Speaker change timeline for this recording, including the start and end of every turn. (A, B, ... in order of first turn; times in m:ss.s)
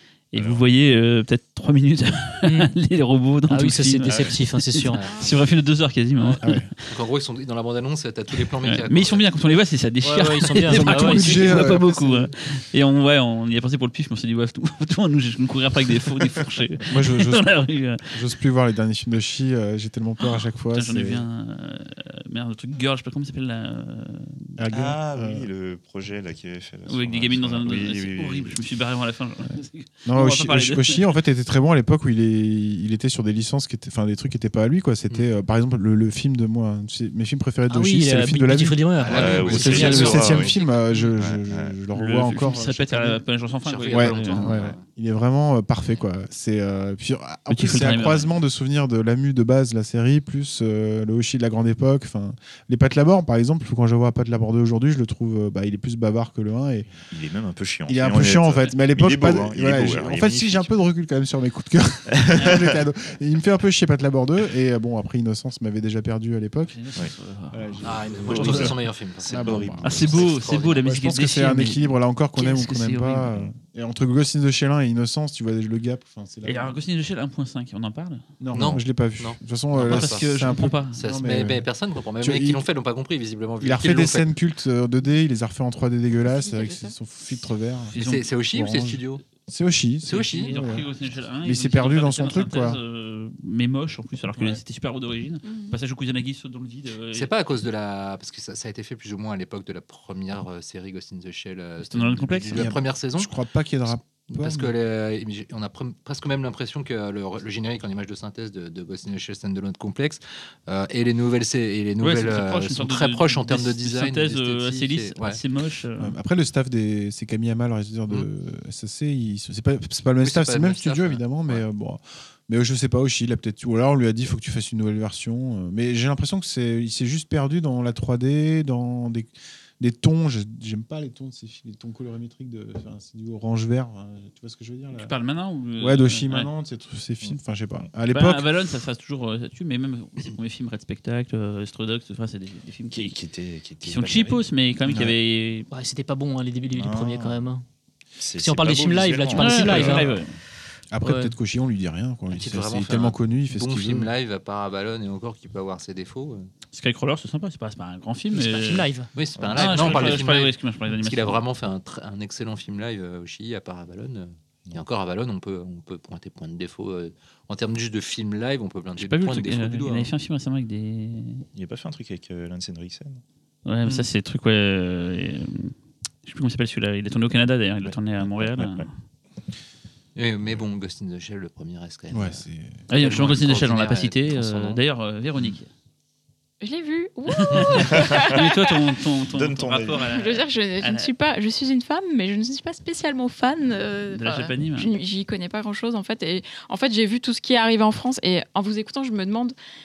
0:00.3-0:06.9 A
0:00.4-0:00.6 B
0:02.4-0:02.7 C
0:03.5-0:05.0 C
0:04.0-0:04.4 B
0:04.9-0:05.3 D
0:05.0-0:05.4 E
0:06.4-0:06.7 F
0:06.9-0:09.2 D
0:08.6-0:18.2 A
0:10.0-0:11.9 C
0:10.7-0:12.3 F
0:16.9-0:17.5 F
0:18.1-0:21.2 F
0:20.2-0:24.6 A
0:24.6-0:25.5 F
0:24.7-0:28.6 B
0:26.9-0:31.1 A
0:30.1-0:43.2 F
0:37.7-0:40.3 C
0:39.0-0:40.6 D
0:39.1-0:40.6 B
0:41.2-0:41.8 B
0:41.9-0:44.6 A
0:43.6-0:44.8 D
0:43.9-0:56.9 F
0:47.5-0:48.3 A
0:57.0-1:00.7 B
0:57.9-1:07.0 F
1:02.1-1:02.8 B
1:06.7-1:08.8 A
1:07.5-1:08.8 F
1:07.8-1:10.9 D
1:08.3-1:10.3 B
1:09.3-1:10.2 F
1:09.8-1:13.3 A
1:10.8-1:16.8 F
1:16.4-1:18.2 A
1:18.4-1:21.7 F
1:18.5-1:24.3 D
1:19.8-1:21.0 A
1:22.2-1:22.6 F
1:23.6-1:28.0 F
1:26.3-1:26.9 E
1:27.9-1:28.3 A
1:28.0-1:29.2 D
1:28.5-1:30.9 F
1:30.1-1:30.6 D
1:30.2-1:37.3 A
1:31.4-1:32.8 F
1:35.4-1:35.8 E
1:37.1-1:43.3 D
1:41.9-1:42.7 A
1:42.5-1:44.7 F
1:44.3-1:55.4 D
1:52.0-1:56.2 A
1:56.0-2:09.3 F
2:00.2-2:01.6 D
2:09.8-2:15.1 F
2:14.9-2:16.5 A
2:15.8-2:18.4 F
2:18.1-2:23.2 A
2:22.9-2:25.1 B
2:23.8-2:25.7 A
2:24.9-2:25.1 F
2:25.7-2:27.6 C
2:26.8-2:27.4 B
2:28.2-2:30.2 B
2:28.4-2:30.1 C
2:29.4-2:30.3 A
2:29.6-2:30.1 F
2:30.9-2:34.1 F
2:31.0-2:31.4 C
2:32.3-2:36.5 D
2:36.7-2:38.9 A
2:38.3-2:39.1 C
2:39.1-2:50.1 D
2:39.4-2:40.2 B
2:39.5-2:41.4 A
2:49.0-2:51.4 A
2:51.5-2:53.2 B
2:53.7-2:58.9 A
2:57.8-2:58.9 B
3:00.2-3:02.4 D
3:02.1-3:02.8 F
3:02.9-3:05.7 A
3:03.0-3:04.8 D
3:06.6-3:09.0 E
3:07.3-3:11.1 A
3:09.3-3:10.1 B
3:10.0-3:19.5 E
3:14.1-3:15.0 A